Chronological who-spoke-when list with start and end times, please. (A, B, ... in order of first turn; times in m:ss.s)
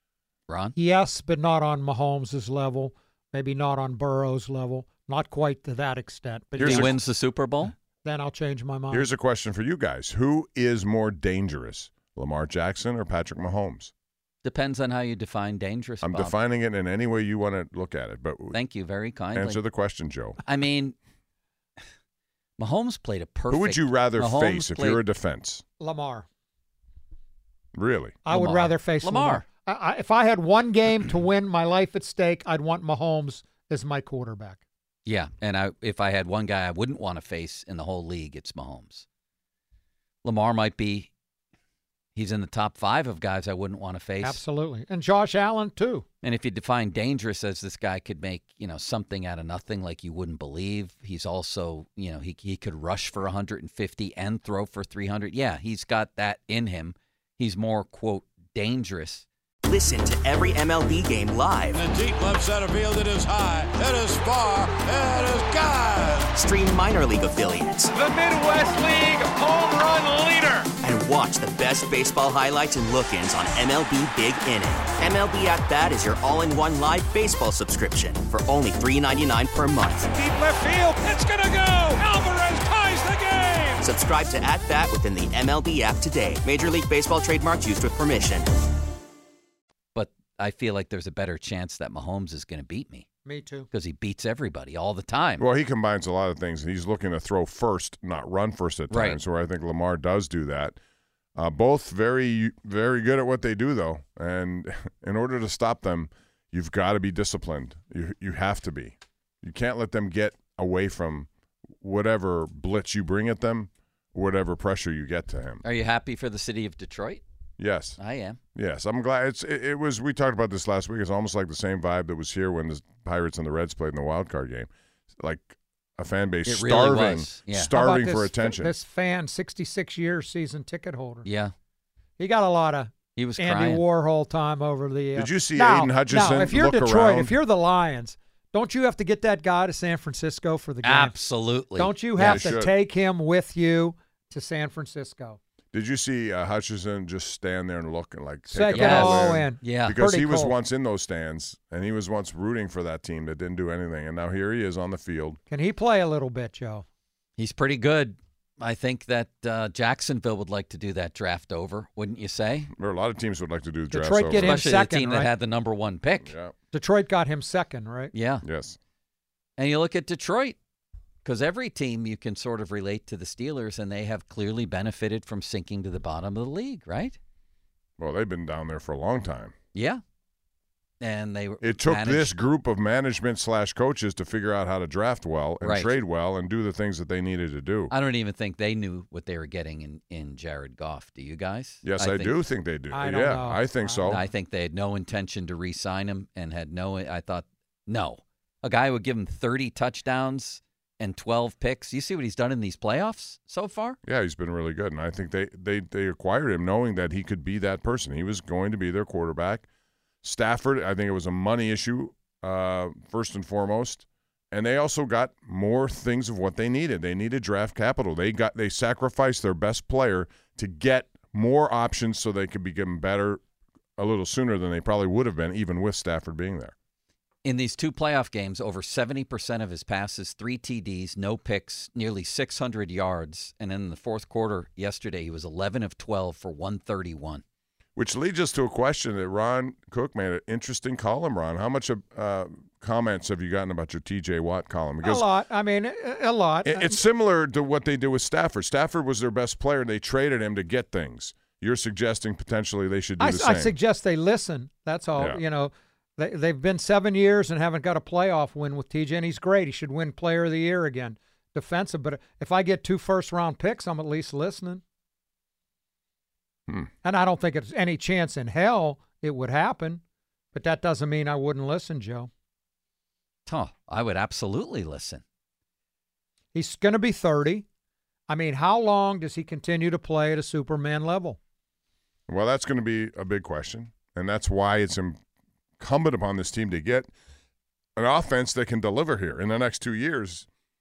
0:00.5-0:00.8 A
0:00.8-0:07.0 B
0:06.6-0:06.9 C
0:06.6-0:07.7 A
0:08.0-0:09.1 B
0:08.9-0:13.9 C
0:14.4-0:16.4 A
0:16.0-0:18.6 C
0:18.5-0:19.6 A
0:19.3-0:20.4 C
0:20.5-0:21.0 A
0:22.6-0:25.0 A
0:23.5-0:25.6 C
0:25.8-0:26.3 B
0:27.8-0:28.2 C
0:28.2-0:34.6 B
0:28.3-0:29.4 A
0:35.1-0:39.0 A
0:40.2-0:41.1 A
0:42.2-0:44.4 A
0:44.2-0:46.1 B
0:46.2-0:59.3 A
0:59.6-1:01.8 D
1:01.7-1:06.4 E
1:06.3-1:08.0 D
1:08.0-1:10.4 B
1:09.5-1:09.9 E
1:10.8-1:20.1 D
1:20.1-1:23.8 E
1:23.8-1:28.5 D
1:30.0-1:33.1 A
1:33.2-1:33.7 B
1:33.7-1:35.4 A
1:35.4-1:40.8 C
1:38.9-1:39.2 A
1:41.4-1:51.3 C
1:51.8-1:55.6 C
1:55.6-1:57.2 A
1:57.6-1:58.0 C
1:58.0-1:58.4 A
1:58.6-2:04.7 C
2:05.2-2:08.7 C
2:06.5-2:07.7 A
2:07.7-2:11.3 B
2:11.2-2:11.5 A
2:12.2-2:21.2 B
2:13.2-2:13.8 A
2:15.2-2:17.3 C
2:20.8-2:22.5 A
2:21.8-2:25.4 B
2:22.2-2:22.7 C
2:25.7-2:35.4 C
2:28.5-2:30.6 B
2:28.8-2:30.0 A
2:35.5-2:36.9 B
2:37.4-2:42.7 A
2:42.8-2:44.6 C
2:43.9-2:45.3 B
2:44.3-2:46.3 A
2:46.2-2:46.5 C
2:46.7-2:48.1 B
2:48.1-2:48.4 A
2:48.4-2:48.8 C
2:49.6-2:50.6 A
2:51.2-2:57.2 A
2:58.0-2:59.5 C
2:59.7-3:00.0 A
3:01.0-3:02.4 A
3:01.6-3:07.9 C
3:05.6-3:05.9 A
3:07.9-3:12.4 A
3:11.8-3:14.2 C
3:12.9-3:14.2 B
3:14.0-3:24.0 A
3:24.0-3:29.7 C
3:30.2-3:43.4 C
3:44.0-3:46.7 C
3:47.4-3:57.4 A
3:58.0-4:05.3 C
4:05.0-4:07.0 B
4:06.6-4:13.8 C
4:13.2-4:24.8 B
4:27.0-4:30.0 B
4:30.5-4:32.3 B
4:33.5-4:35.2 A
4:36.5-4:37.7 B
4:38.3-4:41.4 B
4:42.3-4:45.2 C
4:45.8-4:47.1 C
4:48.0-4:50.5 C